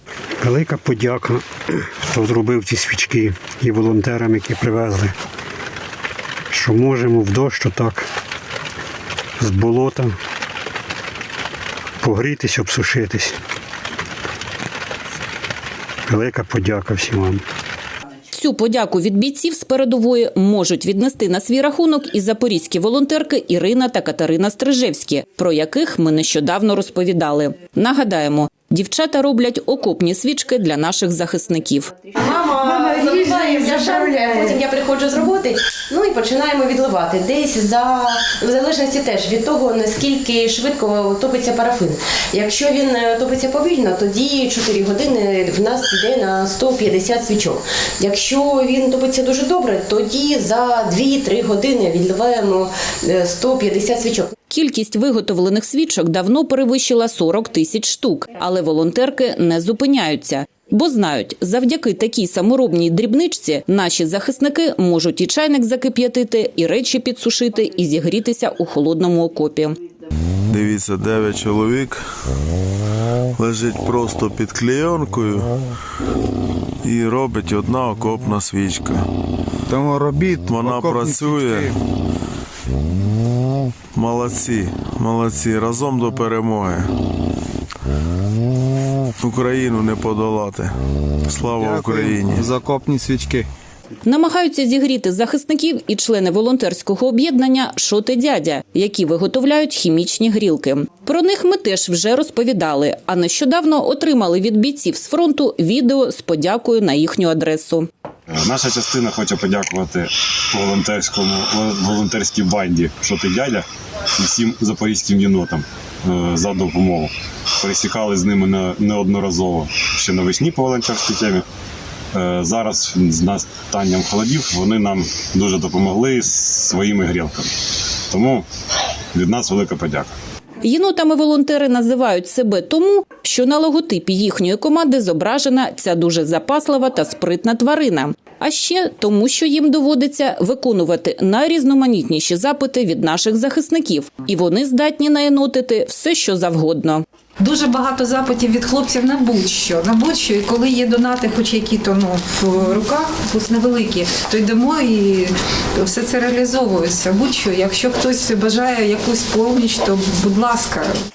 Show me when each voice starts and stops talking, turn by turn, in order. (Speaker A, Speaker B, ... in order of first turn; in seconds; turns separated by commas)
Speaker A: 0.4-5.1, Speaker A: 6.5-8.1, Speaker A: 9.4-10.1, Speaker A: 12.0-13.3, Speaker A: 16.1-17.4, Speaker B: 18.3-32.1, Speaker C: 32.2-54.3, Speaker B: 54.5-69.8, Speaker D: 70.5-72.3, Speaker D: 73.3-75.5, Speaker D: 76.8-79.0, Speaker E: 79.7-81.7, Speaker D: 80.4-81.7, Speaker D: 83.9-86.9, Speaker D: 89.2-90.7, Speaker D: 91.3-92.5, Speaker E: 91.5-93.5, Speaker B: 94.0-107.9, Speaker F: 108.3-113.6, Speaker F: 114.2-121.4, Speaker F: 122.1-127.5, Speaker F: 128.1-128.4, Speaker F: 129.1-130.1, Speaker B: 130.6-147.0, Speaker G: 147.4-160.9